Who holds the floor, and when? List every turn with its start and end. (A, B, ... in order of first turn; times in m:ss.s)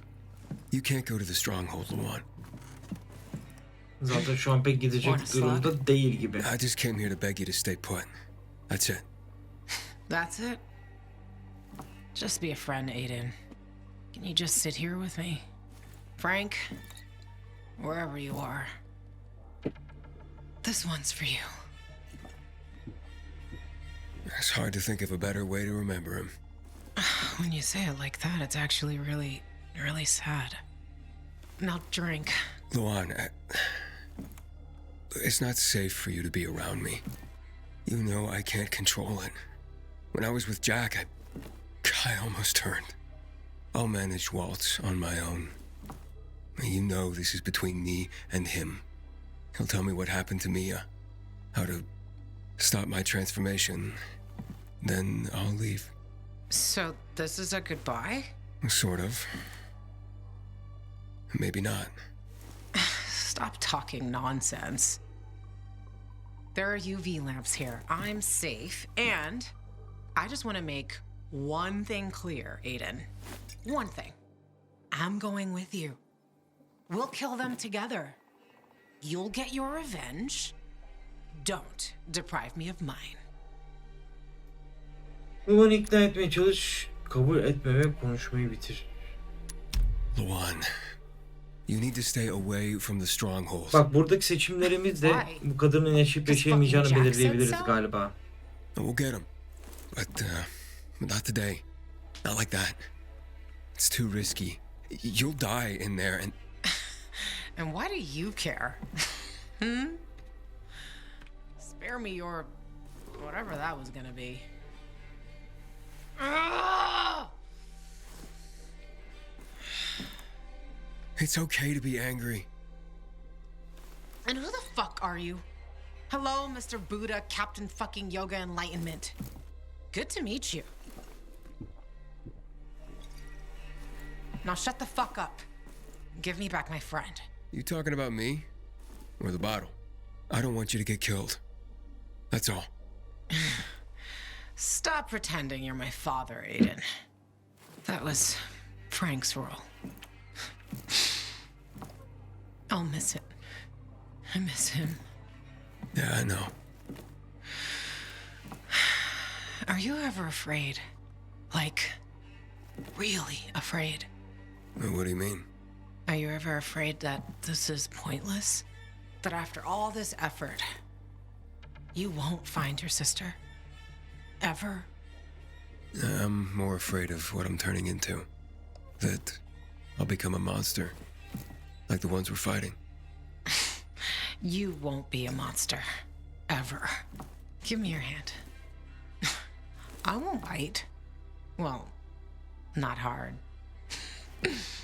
0:00.7-0:02.2 A
0:04.0-0:06.5 B
0:05.0-0:05.7 C
0:06.4-0:08.1 A
0:08.7-0:09.0 A
0:10.1-0:10.6 C
0:12.1-0:13.4 C
0:14.1-0:15.4 C
0:16.2-0:16.7 C
0:17.8-0:18.7 C
0:20.6-0:21.5 C
0:24.3-0:26.3 A
0:27.0-0:30.6 C
0:31.6-0:32.4 C
0:32.7-0:34.0 A
0:35.2-0:37.0 A
0:37.8-0:39.4 A
0:40.1-0:41.1 A
0:41.8-0:43.0 A
0:43.7-0:45.6 A
0:46.6-0:48.8 A
0:49.5-0:50.9 A
0:51.5-0:51.9 A
0:52.6-0:54.0 A
0:54.8-0:55.9 A
0:56.5-0:58.3 C
0:58.6-0:59.4 A
1:01.3-1:01.9 A
1:02.7-1:05.0 C
1:06.5-1:09.5 C
1:10.2-1:13.1 C
1:13.6-1:14.2 C
1:14.9-1:16.0 C
1:16.9-1:18.2 C
1:19.0-1:20.5 C
1:21.4-1:23.2 C
1:25.4-1:28.9 B
1:30.1-1:30.7 A
1:31.7-1:33.8 A
1:33.7-1:38.2 B
1:34.6-1:35.4 C
1:36.2-1:37.8 C
1:38.8-1:39.3 A
1:39.9-1:41.6 A
1:42.2-1:42.8 A
1:43.8-1:46.4 A
1:47.1-1:48.8 C
1:49.6-1:50.0 C
1:51.6-1:52.5 C
1:53.1-1:54.5 C
1:56.2-1:57.3 C
2:01.2-2:02.5 A
2:04.2-2:05.4 C
2:06.1-2:09.2 C
2:09.9-2:10.7 C
2:14.4-2:15.4 C
2:16.2-2:17.2 C
2:17.5-2:18.5 A
2:19.2-2:19.8 A
2:20.3-2:21.4 A
2:22.3-2:22.7 A
2:23.3-2:23.6 C
2:24.6-2:26.8 C
2:27.8-2:29.7 C
2:32.7-2:33.3 C
2:34.3-2:35.0 C
2:35.9-2:36.5 A
2:38.7-2:40.8 C
2:41.5-2:42.0 C
2:42.9-2:44.1 C
2:44.8-2:45.4 A
2:46.1-2:48.6 C
2:49.2-2:50.7 C
2:51.9-2:53.4 C
2:54.4-2:54.9 C
2:56.0-2:58.3 A
2:59.0-2:59.4 A
3:00.0-3:01.0 A
3:01.9-3:02.8 A
3:03.5-3:05.9 C
3:06.5-3:07.0 C
3:07.6-3:08.4 C
3:10.0-3:10.9 C
3:11.6-3:11.9 C
3:12.7-3:13.4 C